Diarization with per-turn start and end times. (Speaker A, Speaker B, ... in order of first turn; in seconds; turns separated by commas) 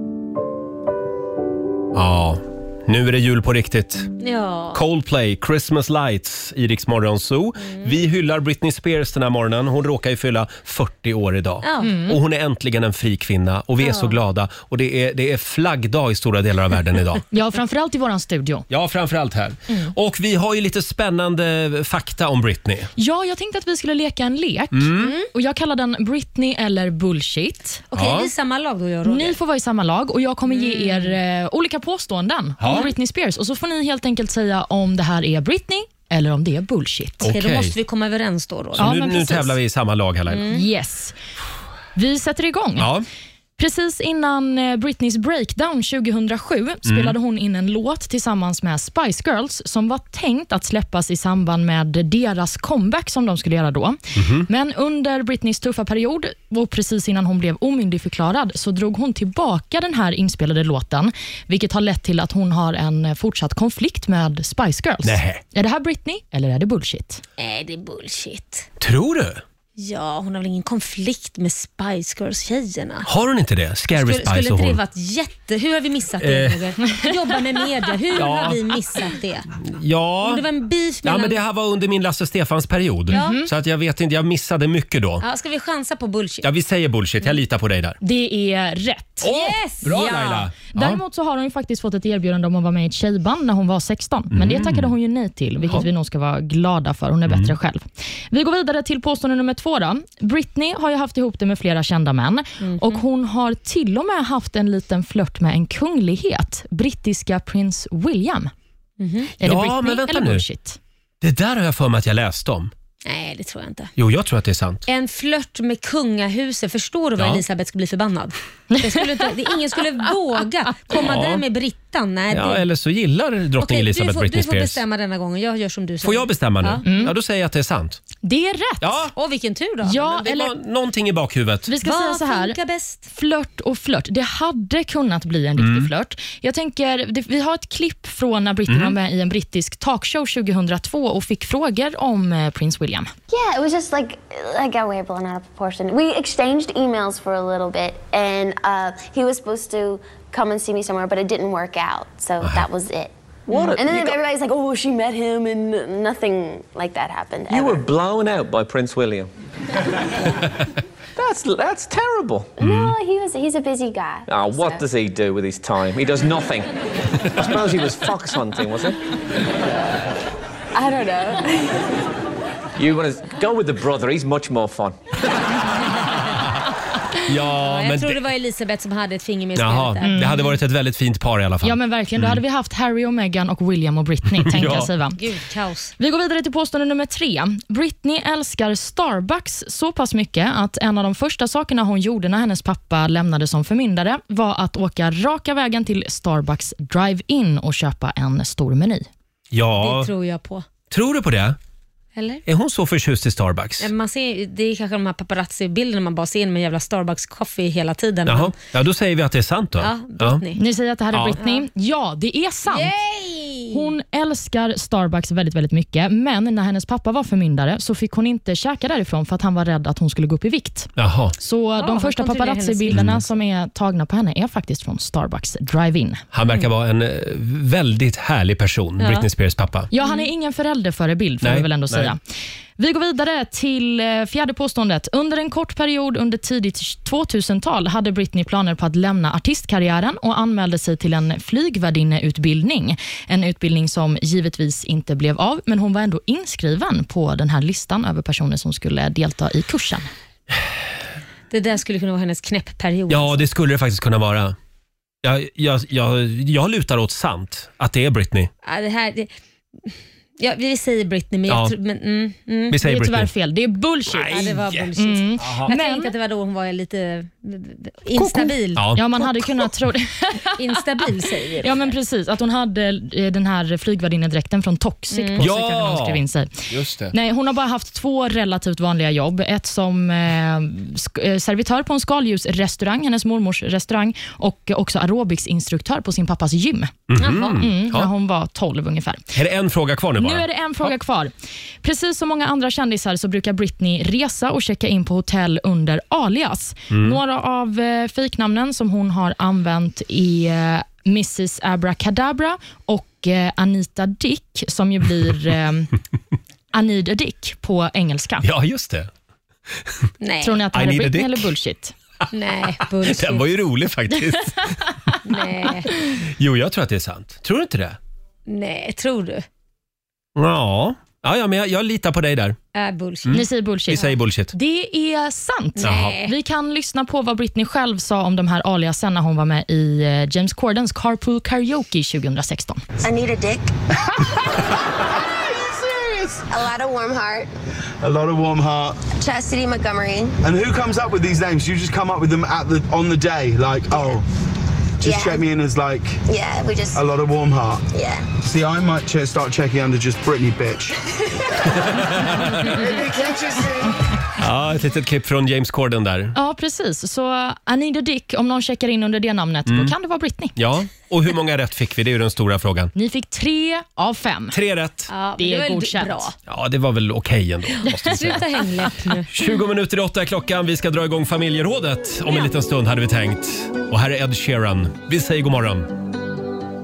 Speaker A: 1.9-4.1, Speaker B: 4.2-4.8, Speaker A: 4.7-17.2, Speaker B: 7.6-7.9, Speaker B: 11.6-12.1, Speaker C: 11.8-12.1, Speaker B: 13.8-14.2, Speaker C: 17.3-18.7, Speaker A: 18.7-22.9, Speaker C: 23.0-27.8, Speaker A: 24.7-25.1, Speaker B: 25.0-25.3, Speaker B: 27.9-29.4, Speaker A: 27.9-28.3, Speaker C: 29.1-37.3, Speaker B: 30.5-31.1, Speaker A: 32.6-32.9, Speaker A: 37.2-37.8, Speaker B: 37.2-38.9, Speaker A: 38.8-40.5, Speaker C: 38.8-39.5, Speaker B: 40.3-40.6, Speaker C: 40.5-41.1, Speaker C: 42.0-42.9, Speaker A: 42.8-43.1, Speaker C: 43.6-67.2, Speaker A: 46.9-47.1, Speaker A: 54.1-54.5, Speaker A: 65.0-65.4, Speaker B: 67.4-68.7, Speaker A: 68.8-69.4, Speaker B: 69.8-73.1, Speaker A: 73.1-74.8, Speaker B: 73.9-79.5, Speaker A: 76.2-76.7, Speaker A: 78.1-78.8, Speaker A: 79.6-80.5, Speaker B: 80.2-81.4, Speaker A: 81.0-85.2, Speaker B: 83.1-83.4, Speaker C: 83.1-83.5, Speaker B: 85.2-86.5, Speaker A: 86.4-88.0, Speaker C: 88.0-89.3, Speaker A: 89.2-91.0, Speaker B: 89.2-90.5, Speaker C: 90.7-108.5, Speaker A: 94.3-94.9, Speaker A: 97.3-97.5, Speaker B: 102.6-103.0, Speaker B: 109.0-109.3, Speaker C: 109.4-110.8, Speaker A: 109.4-110.5, Speaker A: 111.2-112.7, Speaker B: 113.0-113.9, Speaker A: 114.0-114.8, Speaker B: 114.9-122.6, Speaker A: 117.2-117.4, Speaker C: 118.7-119.3, Speaker A: 120.9-121.4, Speaker A: 122.3-124.8, Speaker B: 123.6-126.8, Speaker A: 126.0-128.0, Speaker C: 126.8-127.1, Speaker C: 128.2-129.0, Speaker A: 128.8-129.1, Speaker B: 129.1-130.3, Speaker C: 129.8-130.5, Speaker A: 130.1-131.7, Speaker C: 131.7-132.6, Speaker B: 131.8-133.1, Speaker C: 133.1-143.1, Speaker A: 135.6-135.9, Speaker A: 138.7-139.0, Speaker D: 143.3-157.9, Speaker E: 153.5-154.2, Speaker E: 157.5-159.3, Speaker E: 161.2-162.5, Speaker D: 162.6-164.9, Speaker A: 162.6-162.9, Speaker E: 164.3-169.0, Speaker D: 170.7-171.9, Speaker E: 172.8-175.0, Speaker A: 177.2-178.2, Speaker B: 177.5-180.2, Speaker A: 179.6-182.4, Speaker C: 180.0-180.5, Speaker C: 181.6-185.2, Speaker A: 184.4-184.9, Speaker B: 185.1-185.9, Speaker C: 186.0-199.1, Speaker A: 199.5-200.1, Speaker B: 199.8-200.7, Speaker A: 200.9-201.6, Speaker B: 202.2-202.4, Speaker A: 202.5-203.9, Speaker B: 203.8-208.6, Speaker A: 208.3-210.4, Speaker B: 209.8-210.6, Speaker C: 210.6-212.9, Speaker A: 211.1-211.4, Speaker B: 211.4-211.6, Speaker B: 212.7-213.8, Speaker C: 213.7-226.2, Speaker A: 221.0-221.3, Speaker B: 221.8-223.1, Speaker A: 222.9-223.2, Speaker A: 226.3-229.9, Speaker B: 229.0-229.3, Speaker C: 229.9-232.2, Speaker B: 230.0-230.2, Speaker A: 231.4-232.1, Speaker C: 232.8-250.1, Speaker B: 251.5-253.4, Speaker A: 253.1-254.6, Speaker A: 255.2-258.5, Speaker B: 258.6-259.3, Speaker B: 259.8-262.8, Speaker A: 261.5-261.7, Speaker A: 262.7-263.3, Speaker C: 262.8-266.1, Speaker A: 264.1-264.9, Speaker B: 264.3-268.9, Speaker A: 265.4-265.7, Speaker C: 268.2-270.6, Speaker A: 268.8-269.7, Speaker B: 270.6-271.9, Speaker C: 271.6-286.9, Speaker B: 275.1-275.4, Speaker A: 275.4-277.1, Speaker A: 287.1-288.1, Speaker B: 287.2-287.6, Speaker C: 287.6-289.3, Speaker A: 289.4-290.9, Speaker C: 290.2-291.3, Speaker C: 291.8-305.9, Speaker A: 296.9-297.2, Speaker C: 306.7-308.5, Speaker A: 308.4-309.1, Speaker B: 310.2-310.6, Speaker C: 310.4-311.9, Speaker A: 310.7-311.5, Speaker B: 312.3-313.5, Speaker A: 312.8-314.8, Speaker B: 315.2-315.9, Speaker A: 316.2-318.0, Speaker B: 318.5-319.4, Speaker A: 320.4-322.6, Speaker B: 322.7-323.4, Speaker A: 323.3-324.5, Speaker C: 323.3-332.8, Speaker B: 325.8-326.3, Speaker A: 325.8-326.1, Speaker D: 333.0-333.7, Speaker D: 336.5-337.5, Speaker F: 338.0-339.1, Speaker D: 339.1-340.4, Speaker F: 340.4-344.3, Speaker F: 345.0-346.2, Speaker D: 345.0-345.4, Speaker D: 346.3-347.0, Speaker F: 346.9-347.9, Speaker D: 347.9-348.3, Speaker F: 348.4-351.0, Speaker A: 351.8-352.8, Speaker F: 352.9-353.6, Speaker A: 354.4-356.4, Speaker C: 356.4-360.5, Speaker A: 359.7-359.9, Speaker A: 360.6-362.9, Speaker C: 362.9-364.6, Speaker A: 364.5-365.1, Speaker B: 365.1-366.3, Speaker C: 365.4-366.3, Speaker A: 366.5-368.4, Speaker C: 367.9-368.4, Speaker B: 367.9-369.3, Speaker A: 369.3-375.9